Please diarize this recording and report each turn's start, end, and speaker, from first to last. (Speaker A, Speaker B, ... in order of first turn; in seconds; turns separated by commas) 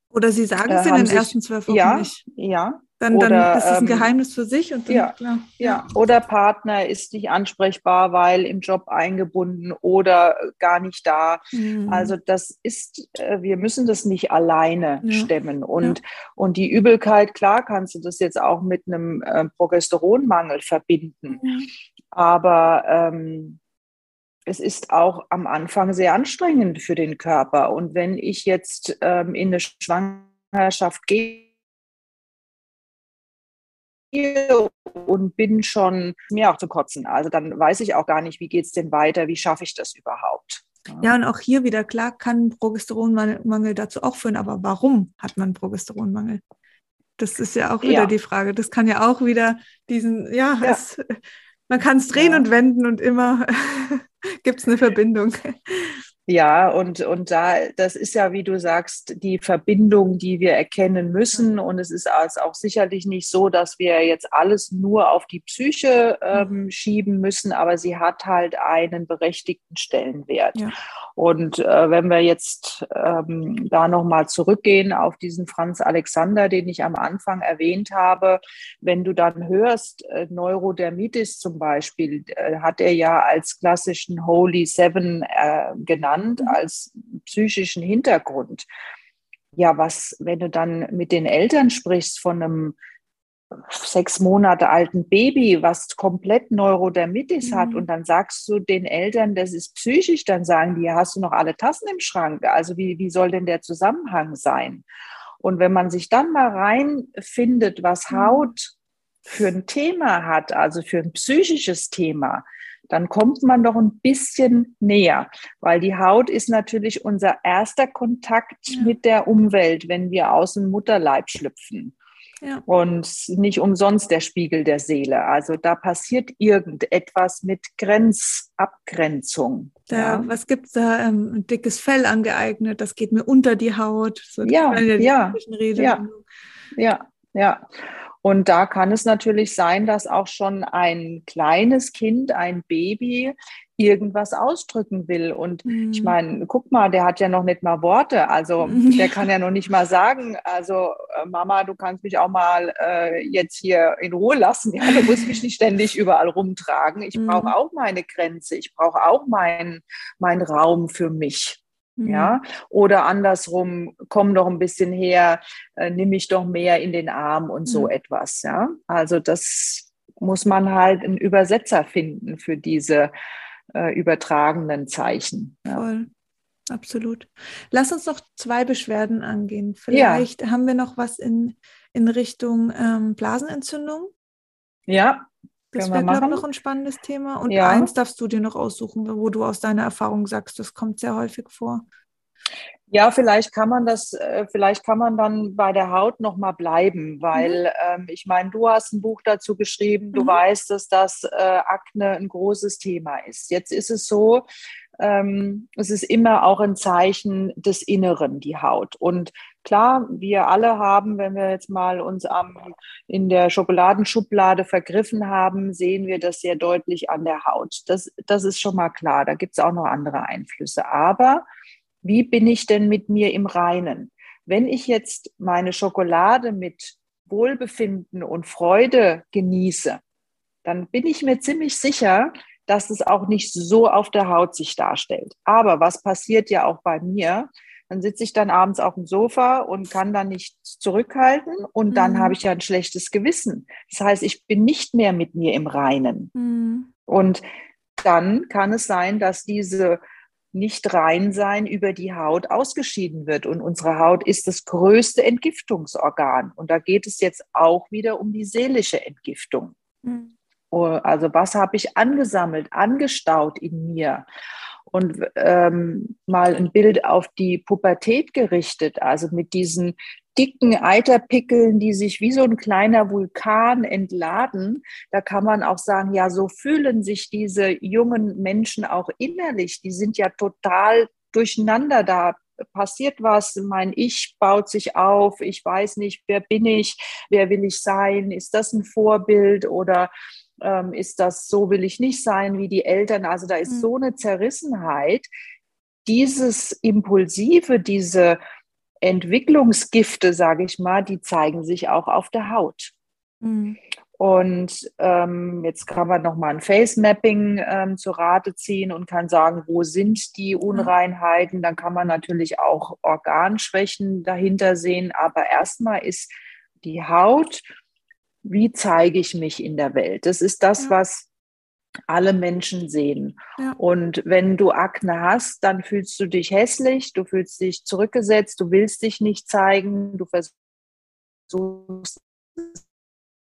Speaker A: 0.1-2.2, Speaker B: 0.7-4.1, Speaker A: 3.0-5.9, Speaker B: 4.9-21.4, Speaker A: 11.5-12.1, Speaker A: 15.0-16.0, Speaker A: 21.4-21.7, Speaker B: 22.1-23.6, Speaker B: 24.5-31.4, Speaker B: 34.1-41.1, Speaker A: 41.0-46.4, Speaker A: 47.2-56.0, Speaker B: 47.8-48.1, Speaker B: 52.1-52.5, Speaker B: 56.3-70.6, Speaker B: 71.2-88.7, Speaker B: 89.5-92.8, Speaker B: 93.6-104.8, Speaker A: 97.4-97.8, Speaker B: 105.4-108.7, Speaker A: 108.1-108.5, Speaker B: 109.2-121.9, Speaker B: 122.7-130.3, Speaker A: 129.9-136.2, Speaker B: 134.4-136.0, Speaker B: 136.8-137.7, Speaker B: 138.2-173.1, Speaker A: 145.7-146.1, Speaker A: 148.6-149.2, Speaker A: 157.1-157.5, Speaker A: 162.0-162.4, Speaker B: 173.7-175.8, Speaker A: 175.7-176.1, Speaker A: 176.7-184.1, Speaker B: 179.9-180.3, Speaker B: 184.9-186.4, Speaker A: 185.7-191.8, Speaker B: 187.5-187.9, Speaker B: 192.9-204.4, Speaker A: 197.3-197.6, Speaker A: 200.1-200.4, Speaker B: 205.0-221.4, Speaker B: 222.0-230.0, Speaker B: 230.6-246.3, Speaker A: 241.9-242.3, Speaker A: 246.3-246.9, Speaker B: 247.1-247.4, Speaker B: 248.0-250.0, Speaker B: 250.5-259.7, Speaker A: 260.0-260.3, Speaker B: 260.7-264.2, Speaker B: 264.9-295.3, Speaker B: 296.1-298.4, Speaker B: 299.0-302.9, Speaker A: 303.4-303.8, Speaker B: 304.2-316.3, Speaker B: 316.8-317.6, Speaker B: 318.4-321.3, Speaker B: 322.1-330.5, Speaker B: 331.5-332.8